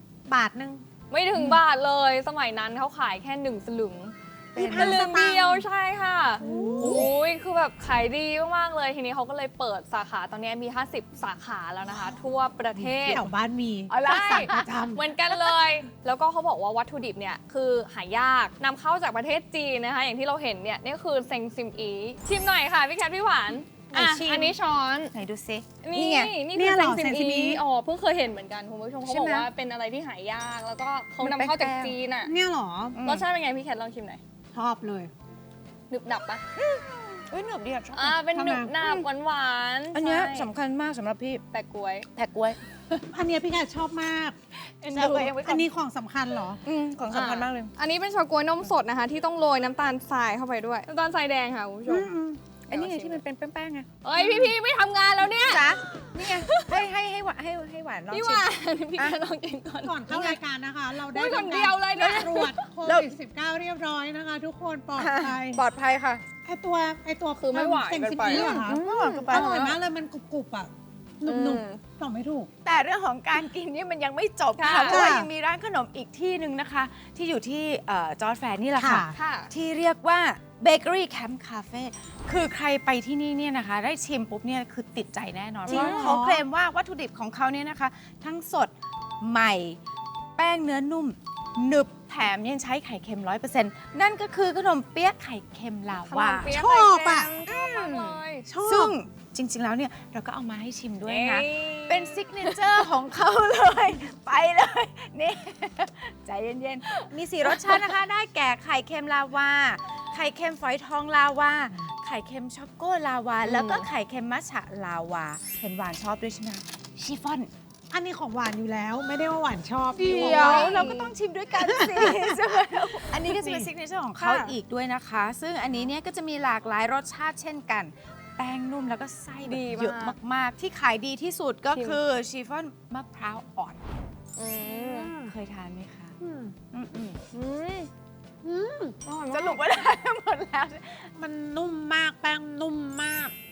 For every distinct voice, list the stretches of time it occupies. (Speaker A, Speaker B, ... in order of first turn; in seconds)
Speaker A: 0.3-0.8, 4.5-5.7, 6.4-7.1, 12.8-15.1, 23.9-24.5, 26.5-27.6, 32.2-33.0, 34.5-35.1, 38.3-38.7, 43.1-44.4, 44.9-46.6, 59.8-65.6, 66.4-72.5, 74.8-75.3, 78.7-79.1, 85.7-86.4, 96.5-97.3, 98.4-98.9, 117.9-120.9, 121.5-123.5, 134.6-135.3, 136.2-136.6, 138.4-139.0, 141.1-143.3
Speaker B: 1.1-13.2, 13.9-25.1, 25.8-32.3, 33.0-34.2, 35.9-36.4, 37.9-40.5, 41.5-42.1, 47.1-52.1, 52.7-53.2, 54.0-56.8, 58.1-60.4, 61.1-62.6, 67.4-69.8, 71.2-71.8, 74.5-75.1, 79.1-79.5, 85.7-86.1, 96.0-98.5, 101.0-102.9, 106.9-107.9, 113.4-113.9, 120.0-121.1, 123.4-124.5, 129.4-130.2, 131.7-132.0, 134.3-135.1, 137.3-137.9, 139.0-139.6
Speaker C: 4.5-5.0, 6.4-7.1, 13.9-14.7, 25.1-26.3, 29.1-29.5, 31.2-31.9, 32.9-33.2, 36.5-38.2, 38.8-39.1, 39.9-41.4, 42.1-43.0, 44.8-45.6, 46.6-47.7, 51.9-54.5, 55.3-59.2, 62.0-62.3, 62.8-63.1, 65.0-66.2, 68.3-69.6, 72.6-89.8, 90.3-96.5, 97.4-117.5, 119.9-133.8, 135.2-136.1, 136.7-137.2, 139.3-141.1